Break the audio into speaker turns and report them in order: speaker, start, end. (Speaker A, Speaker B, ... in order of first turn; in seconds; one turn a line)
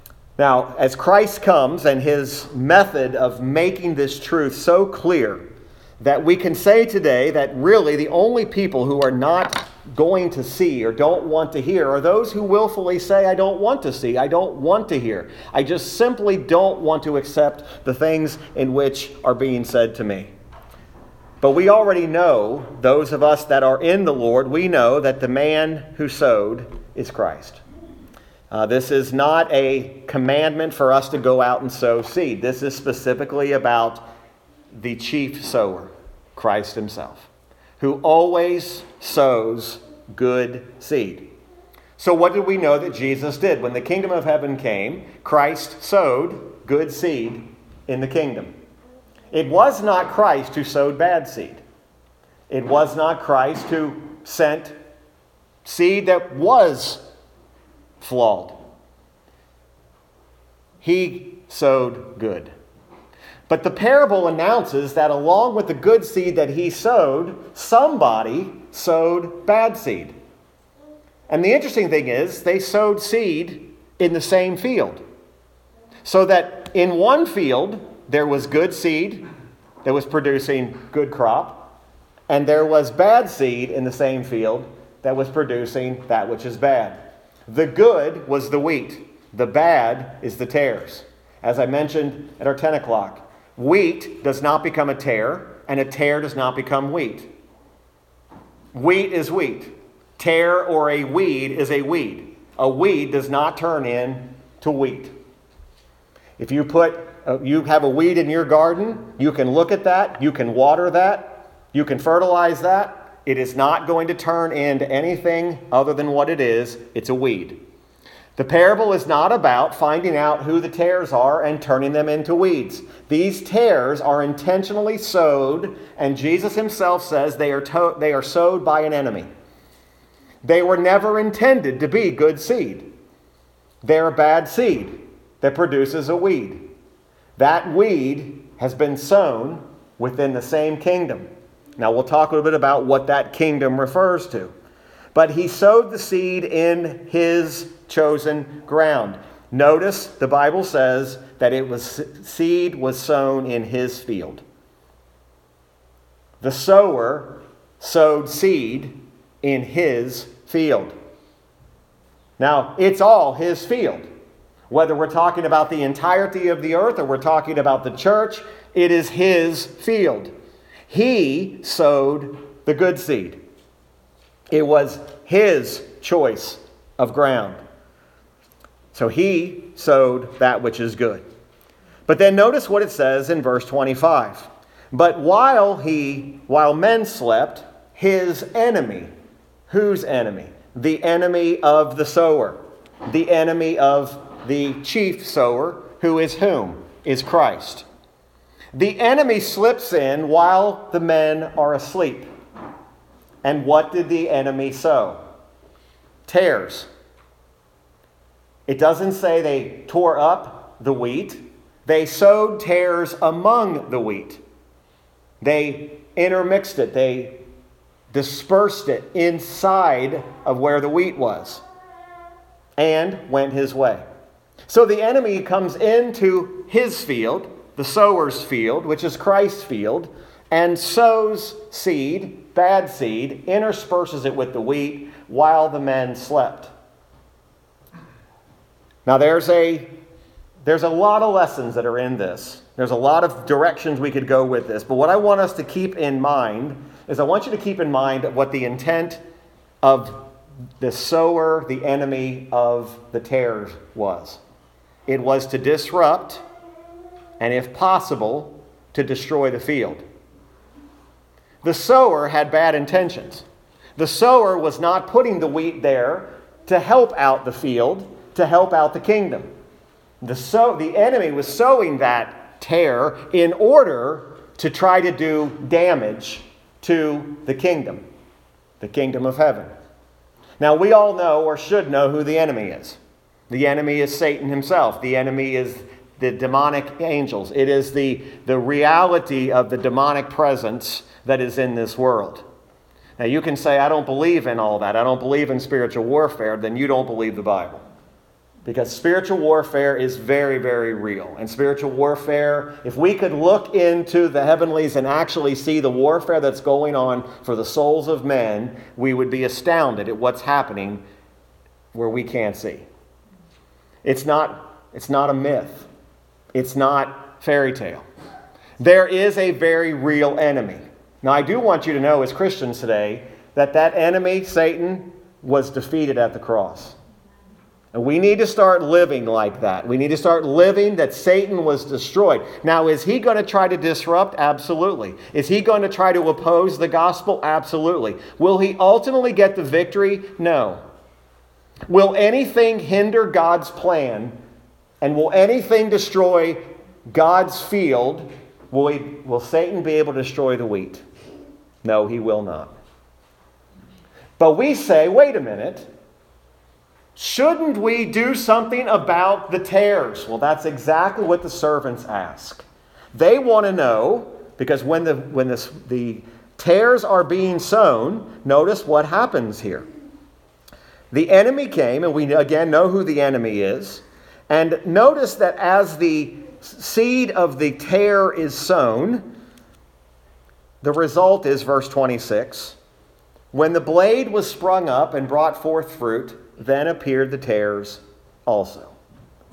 Speaker A: 0.4-5.4
Speaker A: 6.0-20.3
Speaker A: 21.4-27.6
Speaker A: 28.5-34.1
Speaker A: 34.7-37.3
Speaker A: 37.8-41.4
Speaker A: 42.0-48.5
Speaker A: 49.3-51.6
Speaker A: 52.5-54.8
Speaker A: 55.6-57.0
Speaker A: 58.0-58.6
Speaker A: 60.8-62.5
Speaker A: 63.5-70.1
Speaker A: 71.3-75.0
Speaker A: 76.0-79.2
Speaker A: 79.8-81.8
Speaker A: 82.3-97.3
Speaker A: 98.7-105.1
Speaker A: 106.4-117.6
Speaker A: 118.4-129.3
Speaker A: 130.4-132.9
Speaker A: 133.8-136.7
Speaker A: 137.4-144.5
Speaker A: 145.1-154.4
Speaker A: 156.4-160.9
Speaker A: 162.4-164.1
Speaker A: 164.7-170.3
Speaker A: 170.9-173.4
Speaker A: 174.5-177.6
Speaker A: 178.9-181.2
Speaker A: 182.1-189.1
Speaker A: 189.7-197.9
Speaker A: 198.7-202.3
Speaker A: 203.4-205.2
Speaker A: 206.3-206.9
Speaker A: 208.7-214.4
Speaker A: 215.4-217.4
Speaker A: 218.1-221.6
Speaker A: 222.8-224.0
Speaker A: 224.7-236.7
Speaker A: 239.1-239.9
Speaker A: 240.6-249.2
Speaker A: 249.8-250.2
Speaker A: 250.8-254.4
Speaker A: 255.1-256.4
Speaker A: 257.4-260.0
Speaker A: 261.6-263.4
Speaker A: 264.0-269.5
Speaker A: 270.2-278.1
Speaker A: 278.8-279.7
Speaker A: 280.6-283.0
Speaker A: 283.5-292.4
Speaker A: 293.2-297.8
Speaker A: 298.6-311.0
Speaker A: 311.9-312.9
Speaker A: 314.0-315.9
Speaker A: 316.5-318.1
Speaker A: 318.8-327.0
Speaker A: 327.9-340.8
Speaker A: 341.9-344.4
Speaker A: 345.0-351.0
Speaker A: 351.8-352.7
Speaker A: 354.4-355.9
Speaker A: 357.2-369.9
Speaker A: 371.1-379.2
Speaker A: 380.8-382.8
Speaker A: 383.5-389.0